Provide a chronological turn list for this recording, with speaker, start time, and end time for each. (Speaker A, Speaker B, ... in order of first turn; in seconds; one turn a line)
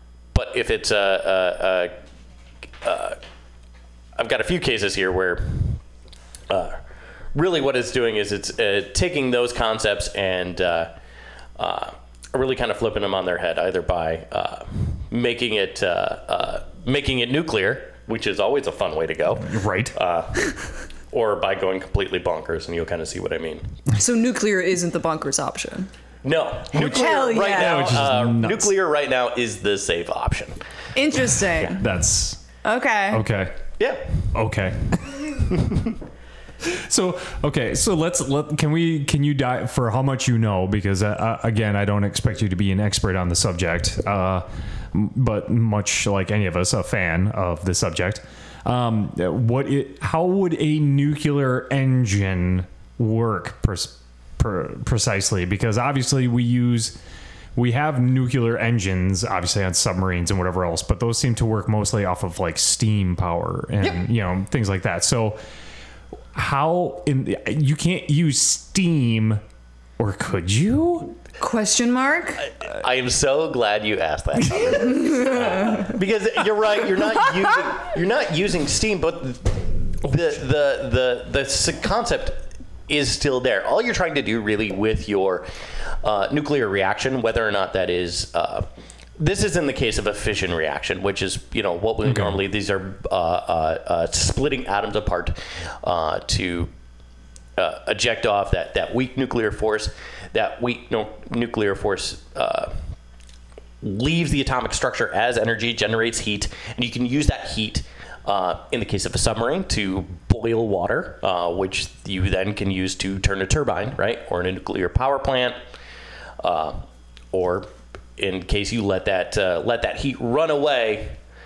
Speaker A: 0.3-1.9
Speaker A: 2.8-3.2
Speaker A: 4.2-5.8
Speaker A: 6.5-6.8
Speaker A: 7.3-10.9
Speaker A: 11.6-23.7
Speaker B: 19.3-19.9
Speaker C: 23.9-25.9
Speaker A: 26.2-30.6
Speaker C: 26.8-27.9
Speaker B: 26.8-28.7
Speaker C: 30.9-31.8
Speaker B: 31.7-32.4
Speaker C: 32.6-33.2
Speaker B: 33.1-33.6
Speaker A: 33.8-34.2
Speaker B: 34.3-35.4
Speaker B: 36.6-57.0
Speaker B: 57.5-65.4
Speaker B: 66.3-69.4
Speaker B: 70.0-71.1
Speaker C: 71.4-72.5
Speaker A: 72.6-85.5
Speaker C: 74.9-75.9
Speaker A: 86.0-88.7
Speaker A: 89.2-96.7
Speaker B: 92.0-92.4
Speaker A: 97.6-102.7
Speaker A: 103.8-115.5
Speaker A: 116.4-121.2